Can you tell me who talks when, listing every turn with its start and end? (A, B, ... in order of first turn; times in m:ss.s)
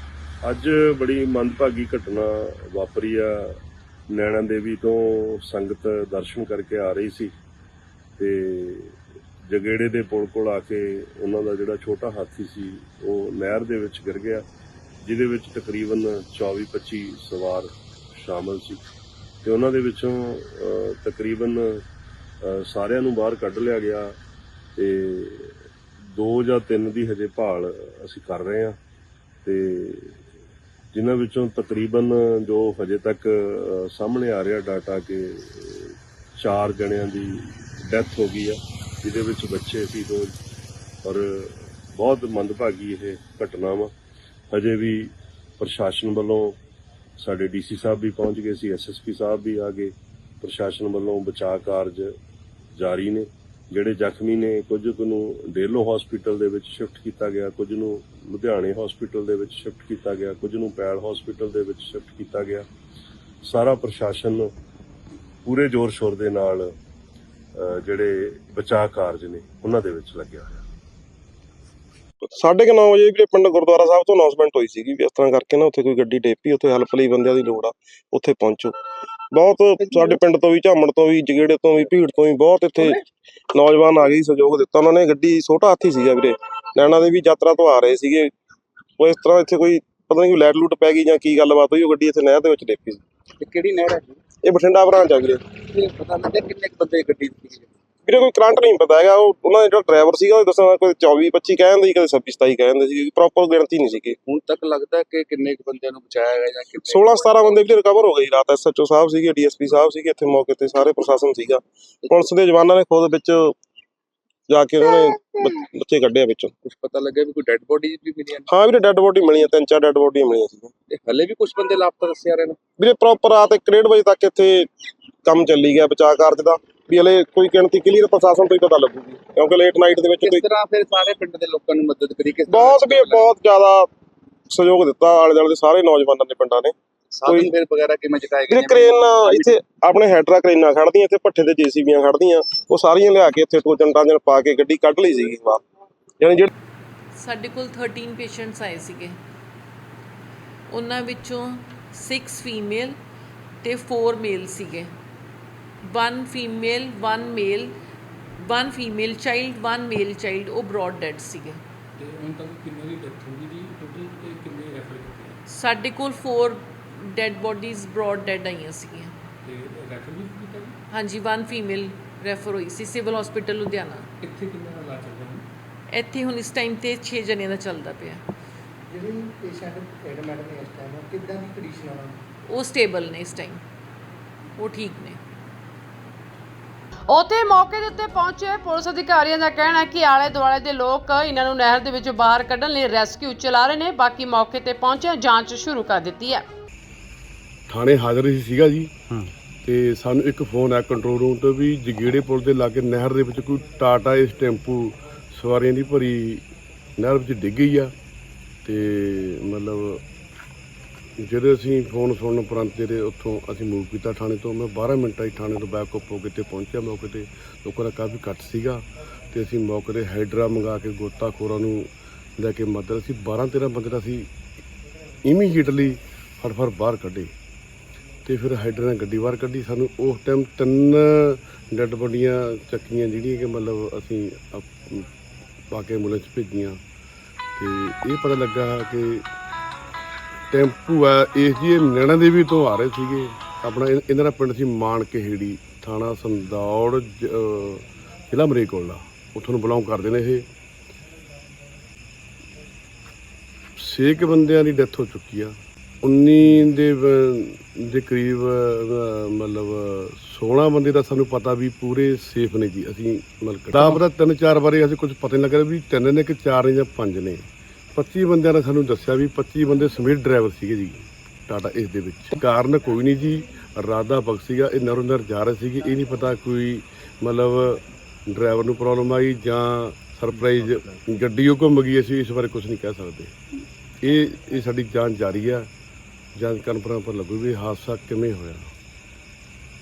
0:00.4-0:03.6 A
0:04.1-0:07.3 A
0:08.2-0:08.9 A
0:09.5-0:14.4 A
0:15.0-0:18.8 A
0:19.4-0:21.8 A
0:22.4-0:24.1 A
0:24.8-0:28.8 A
0:29.4-0:30.2 A
0:30.9-0:40.3 A
0:41.0-0:43.9 A
0:44.5-0:46.6 A
0:47.2-0:52.1 A
0:52.8-1:02.6 A
1:03.4-1:04.5 A
1:05.4-1:06.7 A
1:07.6-1:10.6 A
1:12.2-1:18.7 B
1:19.3-1:23.0 B
1:23.5-1:28.3 B
1:29.0-1:33.0 B
1:33.4-1:34.2 C
1:34.4-1:35.4 B
1:35.7-1:37.7 C
1:38.1-1:44.2 B
1:44.2-1:47.6 C
1:46.8-1:53.5 B
1:54.5-1:56.5 B
1:56.6-1:58.5 C
1:58.5-2:00.7 B
2:00.9-2:02.6 C
2:02.8-2:04.7 B
2:05.2-2:10.4 B
2:10.2-2:13.3 C
2:12.5-2:13.9 B
2:14.5-2:16.7 B
2:17.2-2:19.5 C
2:17.2-2:17.5 B
2:18.5-2:25.6 B
2:26.2-2:26.5 B
2:27.2-2:29.2 D
2:30.7-2:33.0 D
2:33.6-2:34.9 D
2:35.9-2:37.8 D
2:38.4-2:41.6 D
2:42.0-2:45.4 E
2:45.5-2:49.1 D
2:49.4-2:50.8 E
2:50.9-2:54.1 D
2:54.2-2:55.4 E
2:55.9-2:58.2 D
2:58.9-3:02.2 F
3:02.5-3:03.6 D
3:04.6-3:05.2 D
3:07.1-3:16.5 G
3:17.7-3:26.4 H
3:27.0-3:27.9 H
3:28.6-3:30.0 H
3:31.2-3:44.3 H
3:45.2-3:47.3 H
3:48.2-3:55.1 H
3:55.7-3:56.8 H
3:57.6-3:59.2 H
4:00.5-4:10.4 H
4:13.8-4:43.4 H
4:44.0-4:45.7 H
4:46.4-4:48.7 H